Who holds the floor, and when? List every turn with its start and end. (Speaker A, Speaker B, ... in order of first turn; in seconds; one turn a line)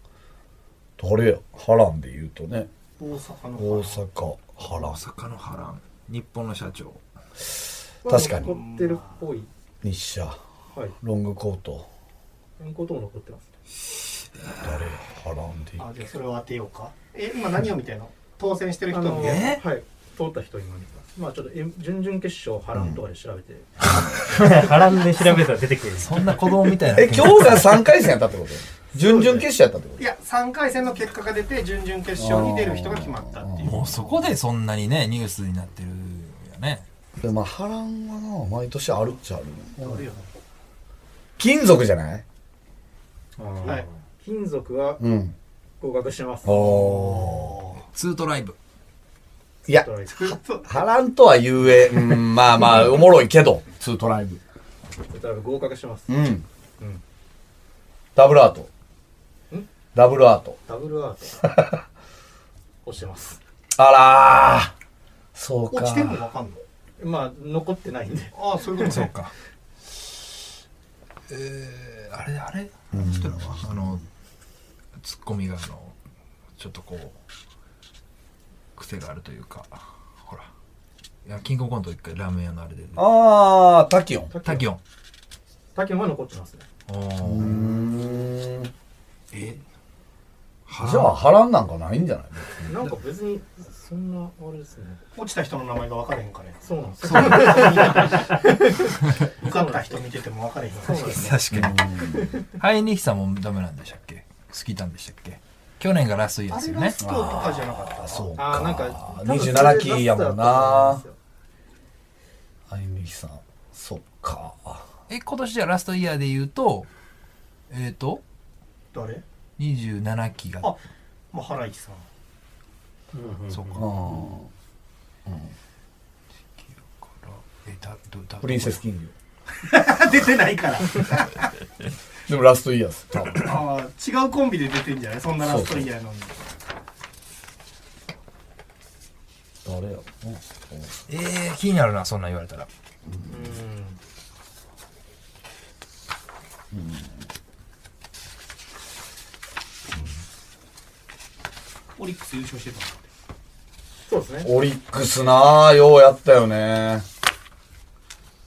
Speaker A: 1.0-2.7
Speaker B: 3.0-4.0
Speaker A: 3.6-5.0
Speaker C: 4.7-7.0
Speaker D: 8.1-9.5
Speaker A: 8.1-8.6
Speaker B: 8.1-9.2
Speaker A: 9.8-10.4
Speaker A: 11.0-11.9
Speaker D: 12.6-13.5
Speaker A: 14.6-15.8
Speaker B: 15.8-19.5
Speaker D: 18.9-23.7
Speaker C: 19.2-19.6
Speaker A: 22.8-23.0
Speaker E: 24.3-26.4
Speaker C: 26.0-27.9
Speaker A: 26.9-30.0
Speaker B: 29.0-29.4
Speaker B: 30.0-34.1
Speaker A: 32.2-33.8
Speaker C: 33.6-36.9
Speaker A: 37.2-40.0
Speaker B: 39.8-40.2
Speaker A: 41.4-42.2
Speaker E: 43.4-43.9
Speaker D: 43.6-45.1
Speaker A: 45.0-45.4
Speaker D: 45.8-46.9
Speaker A: 46.4-47.6
Speaker B: 46.5-47.8
Speaker C: 47.9-48.6
Speaker D: 49.7-50.7
Speaker B: 50.1-50.6
Speaker A: 50.7-54.4
Speaker D: 55.1-56.1
Speaker A: 56.1-56.4
Speaker A: 58.2-58.7
Speaker A: 59.9-60.6
Speaker D: 60.7-61.4
Speaker D: 62.9-63.4
Speaker A: 63.8-64.7
Speaker A: 65.3-66.2
Speaker B: 65.7-66.6
Speaker D: 67.0-68.3
Speaker B: 68.3-69.1
Speaker C: 68.8-69.3
Speaker C: 71.3-74.0
Speaker A: 72.9-73.7
Speaker C: 75.0-76.0
Speaker C: 76.6-77.2
Speaker C: 78.8-80.5
Speaker C: 81.2-83.0
Speaker A: 83.0-84.3
Speaker D: 84.3-84.7
Speaker C: 84.4-84.8
Speaker D: 85.8-86.7
Speaker C: 86.9-87.7
Speaker A: 87.2-88.7
Speaker C: 89.3-89.6
Speaker C: 90.7-91.2
Speaker A: 90.8-92.8
Speaker D: 92.7-95.0
Speaker B: 95.2-101.3
Speaker D: 96.6-98.9
Speaker C: 97.1-97.4
Speaker D: 99.4-100.1
Speaker D: 100.8-101.5
Speaker C: 101.1-101.9
Speaker A: 101.5-102.3
Speaker D: 102.0-102.5
Speaker C: 102.6-107.0
Speaker B: 106.5-108.4
Speaker A: 107.0-111.0
Speaker D: 108.4-111.2
Speaker A: 112.7-114.8
Speaker C: 115.1-116.9
Speaker C: 117.7-118.2
Speaker B: 118.9-119.2
Speaker C: 119.6-120.7
Speaker B: 121.3-122.1
Speaker E: 123.1-123.9
Speaker C: 123.5-124.2
Speaker A: 123.8-124.5
Speaker A: 125.2-125.5
Speaker C: 126.5-128.8
Speaker A: 128.4-129.1
Speaker B: 129.6-131.4
Speaker A: 132.3-133.5
Speaker B: 133.3-136.4
Speaker A: 135.4-135.9
Speaker A: 139.6-141.0
Speaker C: 141.1-142.7
Speaker A: 143.1-143.3
Speaker D: 143.3-144.0
Speaker A: 146.7-147.2
Speaker B: 152.0-153.1
Speaker D: 154.1-154.5
Speaker A: 154.4-157.0